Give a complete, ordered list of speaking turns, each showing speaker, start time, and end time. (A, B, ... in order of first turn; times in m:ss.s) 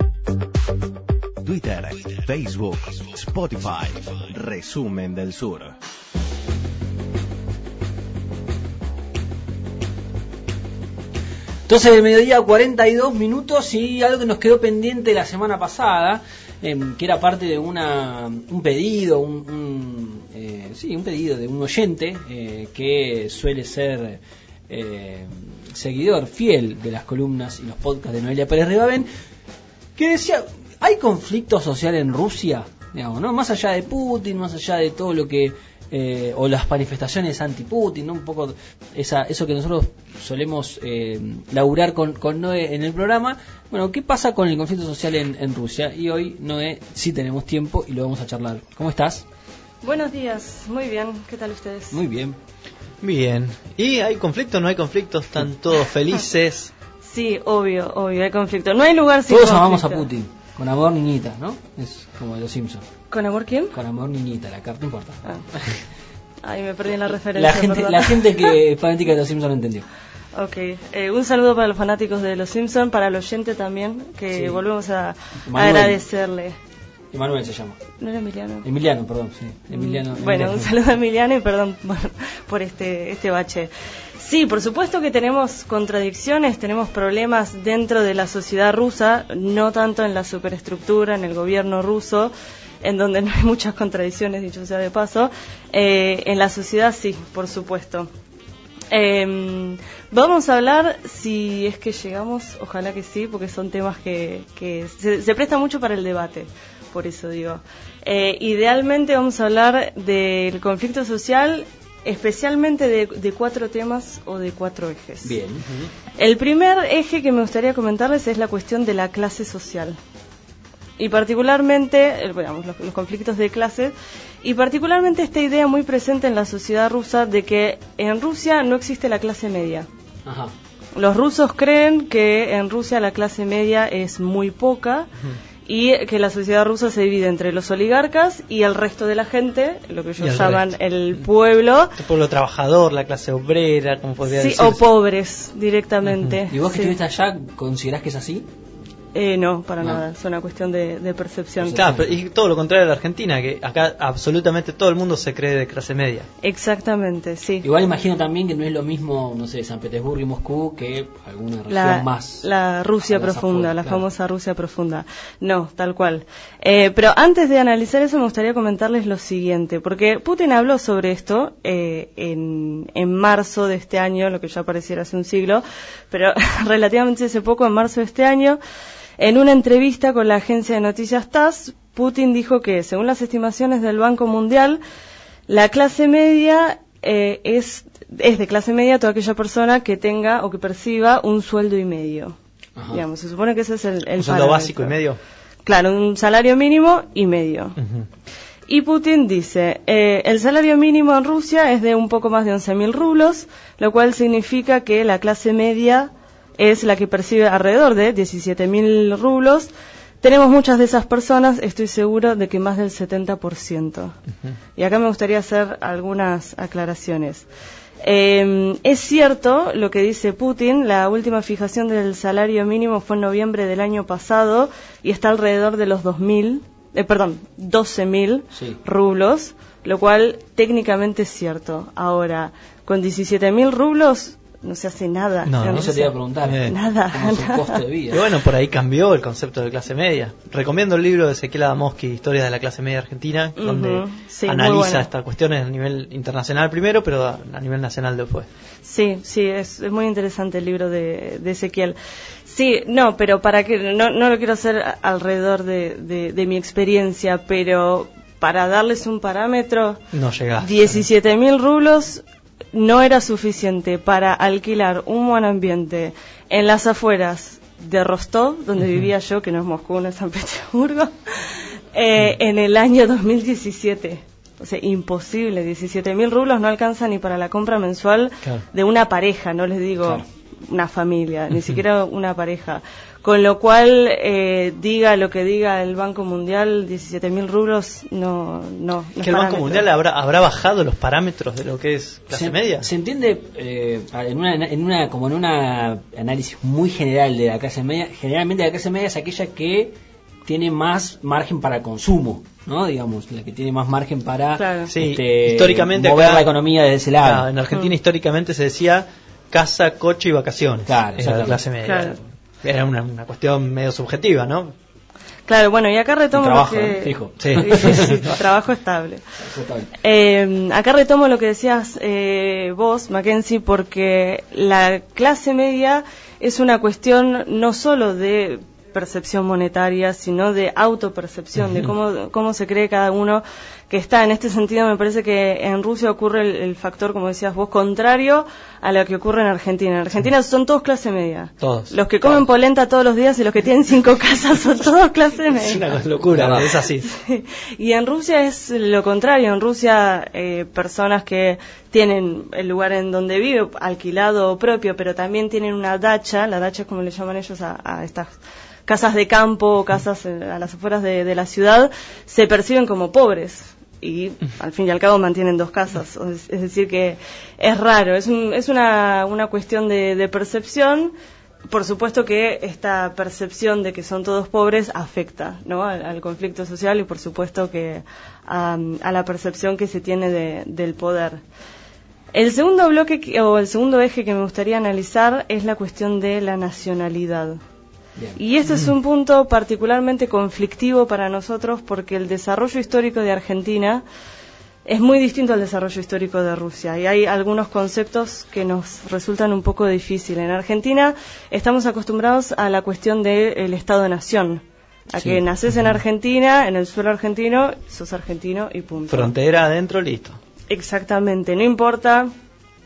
0:01.4-0:05.7 A
0:11.7-0:29.1 B
0:30.0-0:49.2 B
0:49.8-0:52.0 C
0:51.9-0:52.4 B
0:53.0-0:56.7 D
0:57.0-1:00.0 C
0:59.3-1:02.8 B
1:03.1-1:03.7 C
1:03.7-1:05.8 B
1:06.4-1:08.5 C
1:07.3-1:09.8 B
1:10.3-1:16.6 C
1:14.3-1:14.6 B
1:15.4-1:16.0 B
1:17.1-1:17.8 B
1:18.0-1:18.6 C
1:18.6-1:20.7 B
1:19.7-1:38.1 C
1:38.9-1:55.4 C
1:55.2-1:55.6 B
1:56.2-2:00.0 C
2:01.0-2:09.9 C
2:10.2-2:10.5 B
2:11.0-2:15.1 C
2:15.6-2:22.0 C
2:20.2-2:20.8 D
2:22.0-2:24.8 D
2:24.3-2:27.0 C
2:26.4-2:28.5 B
2:29.1-2:32.0 C
2:31.6-2:32.1 B
2:31.7-2:36.3 D
2:36.4-2:37.7 C
2:37.6-2:42.4 B
2:41.7-2:58.6 C
2:43.0-2:44.0 B
2:59.2-3:04.8 C
3:05.5-3:12.4 C
3:12.8-3:13.0 B
3:12.9-3:15.0 C
3:14.2-3:15.2 D
3:15.6-3:17.8 C
3:17.8-3:18.1 D
3:18.7-3:29.7 C
3:30.2-3:34.1 C
3:34.8-3:37.4 C
3:38.0-3:56.1 C
3:48.5-3:48.8 B
3:55.4-3:56.7 D
3:55.7-3:58.2 B
3:56.7-3:57.8 C
3:58.1-4:08.5 D
4:03.6-4:05.1 C
4:08.8-4:20.0 C
4:20.1-4:21.0 D
4:20.6-4:49.9 C
4:49.2-4:52.9 D
4:52.3-5:07.5 B
5:04.6-5:04.9 C
5:04.9-5:06.5 D
5:07.2-5:14.7 D
5:10.8-5:11.6 B
5:11.8-5:12.2 C
5:15.5-5:19.2 C
5:16.3-5:18.2 B
5:17.4-5:18.1 D
5:19.4-5:19.9 B
5:20.0-5:45.9 C
5:41.6-5:42.4 D
5:45.6-5:47.1 D
5:46.3-5:46.7 B
5:46.6-5:58.3 C
5:58.9-6:11.1 C
6:11.7-6:21.4 C
6:22.3-6:27.6 C
6:28.4-6:34.0 C
6:34.8-6:49.3 C
6:49.1-6:50.4 D
6:50.7-6:52.3 C